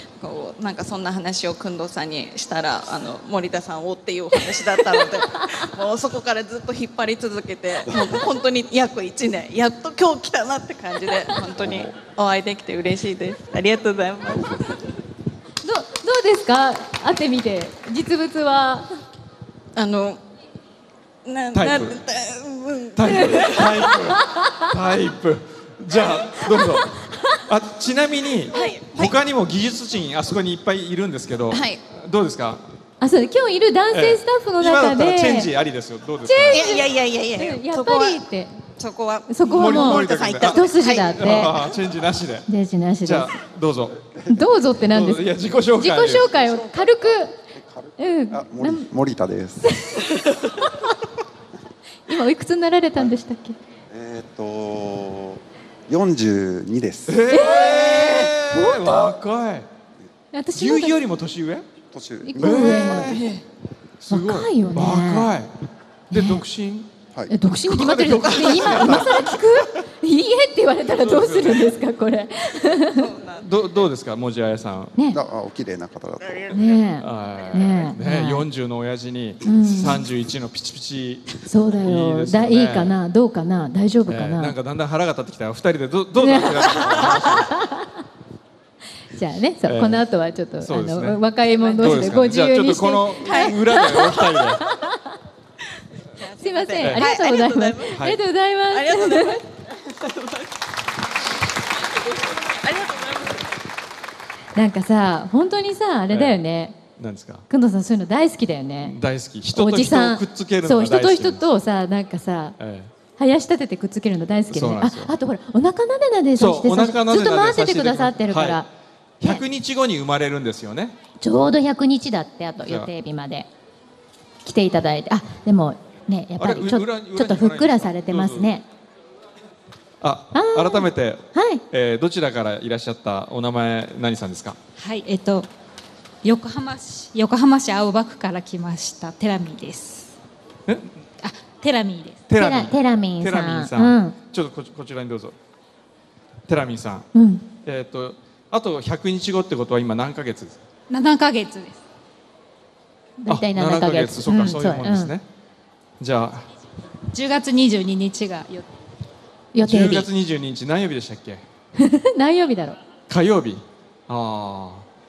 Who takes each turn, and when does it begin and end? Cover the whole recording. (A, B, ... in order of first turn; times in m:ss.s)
0:00.2-0:14.8 A
0:11.5-0:12.0 B
0:15.6-0:18.9 C
0:19.7-0:20.2 A
0:21.2-0:24.1 A
0:21.5-0:22.0 B
0:22.9-0:32.6 B
0:28.5-0:29.2 A
0:31.5-0:31.8 A
0:33.0-0:35.5 C
0:33.9-0:36.7 B
0:36.2-0:38.5 C
0:36.4-0:38.2 A
0:38.8-0:41.5 A
0:39.3-0:41.6 C
0:39.5-0:42.5 B
0:42.5-0:43.3 C
0:43.0-0:44.1 B
0:44.3-0:47.4 C
0:44.9-0:46.4 B
0:47.6-0:49.7 D
0:48.0-0:48.9 C
0:49.6-0:50.2 C
0:52.1-0:53.6 C
0:53.9-0:57.2 D
0:57.1-0:59.7 B
0:57.3-0:59.1 C
1:00.3-1:01.0 C
1:00.5-1:01.7 B
1:01.9-1:03.2 D
1:02.2-1:03.2 C
1:02.4-1:03.4 B
1:04.0-1:05.5 B
1:04.1-1:05.3 C
1:06.1-1:06.9 B
1:06.1-1:06.4 C
1:07.3-1:13.1 C
1:07.4-1:09.4 B
1:10.9-1:11.7 B
1:12.9-1:13.5 A
1:13.4-1:14.9 B
1:15.1-1:16.6 D
1:16.5-1:18.4 C
1:17.0-1:21.3 B
1:19.4-1:20.0 C
1:21.5-1:24.5 C
1:21.8-1:23.0 B
1:24.1-1:27.5 B
1:26.2-1:27.9 C
1:29.1-1:34.9 C
1:29.6-1:30.0 B
1:30.6-1:31.2 B
1:31.5-1:32.0 A
1:31.8-1:34.6 B
1:33.2-1:34.4 A
1:36.2-1:38.1 A
1:36.4-1:39.4 C
1:36.8-1:37.1 B
1:37.9-1:38.2 B
1:38.7-1:40.5 A
1:42.4-1:43.4 A
1:44.5-1:46.8 C
1:46.1-1:46.4 B
1:47.0-1:47.5 B
1:47.5-1:49.0 C
1:48.8-1:51.4 B
1:49.5-1:52.6 C
1:52.6-1:52.9 B
1:53.2-1:58.7 C
1:54.5-1:55.1 B
1:56.4-1:58.7 B
1:59.2-2:01.0 B
2:01.2-2:03.5 C
2:02.6-2:02.9 B
2:04.4-2:08.6 C
2:06.4-2:08.5 B
2:10.0-2:14.6 B
2:10.3-2:11.6 C
2:14.8-2:15.5 E
2:16.2-2:20.1 E
2:20.7-2:20.9 B
2:21.2-2:22.2 E
2:22.3-2:25.4 B
2:22.4-2:24.2 C
2:26.5-2:27.1 B
2:27.1-2:27.4 C
2:27.6-2:30.6 B
2:30.9-2:31.8 E
2:33.2-2:35.1 C
2:33.3-2:35.2 B
2:36.0-2:36.4 B
2:37.1-2:38.7 E
2:39.5-2:40.1 C
2:39.6-2:41.4 B
2:41.8-2:42.8 C
2:43.1-2:44.8 B